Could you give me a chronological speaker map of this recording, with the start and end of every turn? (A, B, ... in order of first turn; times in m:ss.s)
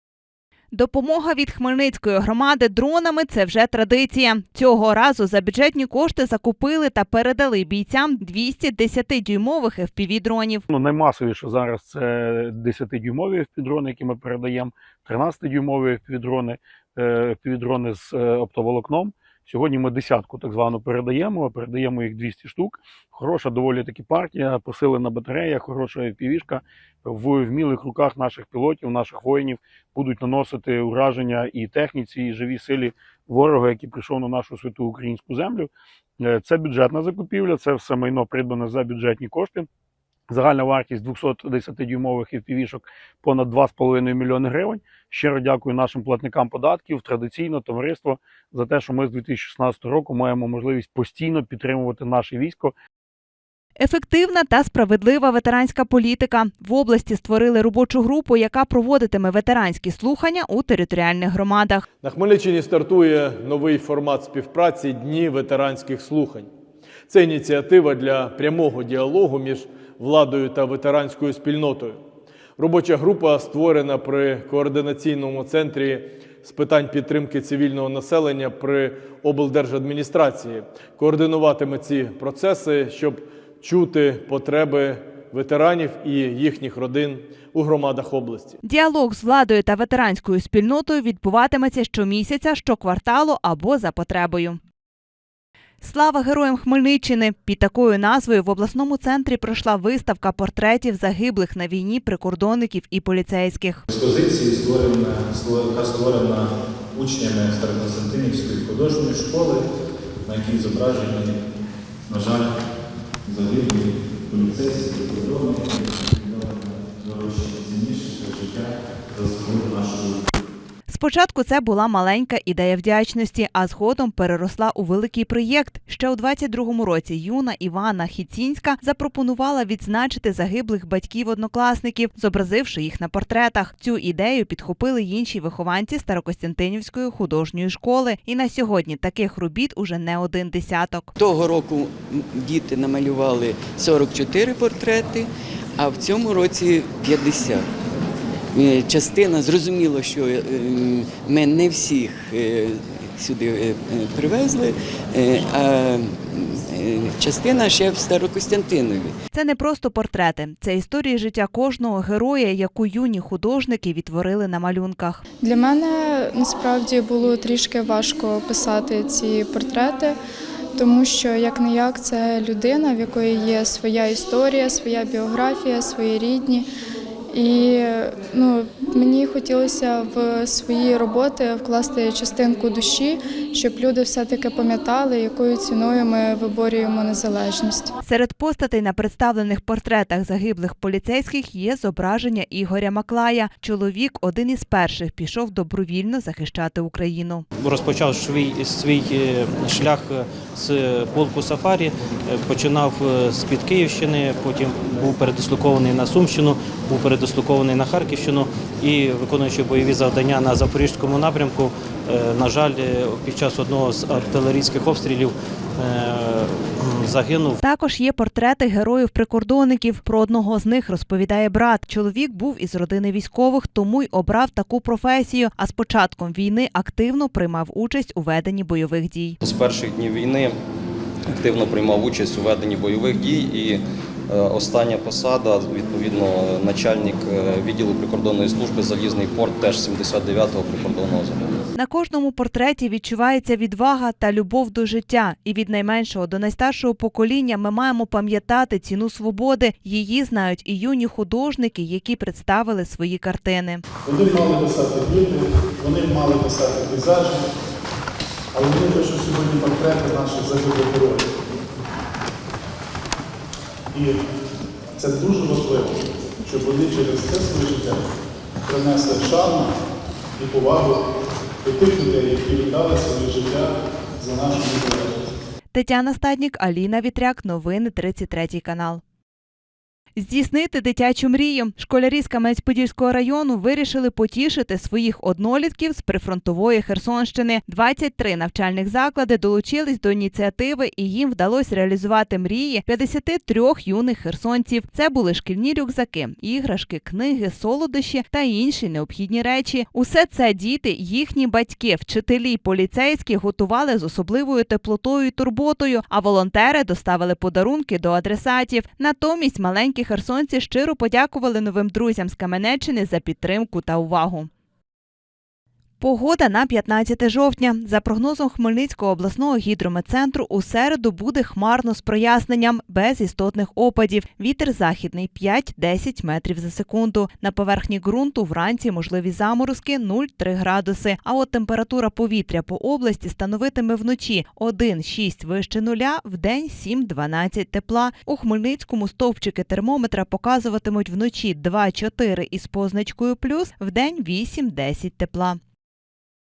0:00.7-0:10.6 A
0:10.7-0:39.7 B
0:40.3-0:52.7 B
0:53.8-1:01.8 A
1:02.0-1:06.5 C
1:07.1-1:12.0 C
1:12.6-1:28.6 C
1:28.6-1:34.6 A
1:35.8-1:43.8 A
1:43.9-1:49.6 D
1:50.2-1:51.4 D
1:52.1-1:52.5 D
1:53.2-2:00.3 D
2:00.9-2:21.1 A
2:21.2-2:27.7 E
2:28.5-2:39.1 E
2:39.3-2:45.2 A
2:45.4-2:50.2 F
2:50.8-2:56.6 F
2:57.3-3:07.9 F
3:08.0-3:17.4 A
3:17.6-3:37.6 G
3:37.6-3:49.4 A
3:49.4-3:50.6 H
3:51.3-4:01.5 H
4:01.8-4:13.8 A
4:14.0-4:17.4 I
4:18.5-4:21.2 I
4:23.9-4:24.2 I
4:25.0-4:28.0 I
4:28.7-4:29.7 I
4:30.4-4:31.0 I
4:31.6-4:35.2 I
4:35.7-4:39.0 A
4:40.2-5:14.5 A
5:16.0-5:45.6 A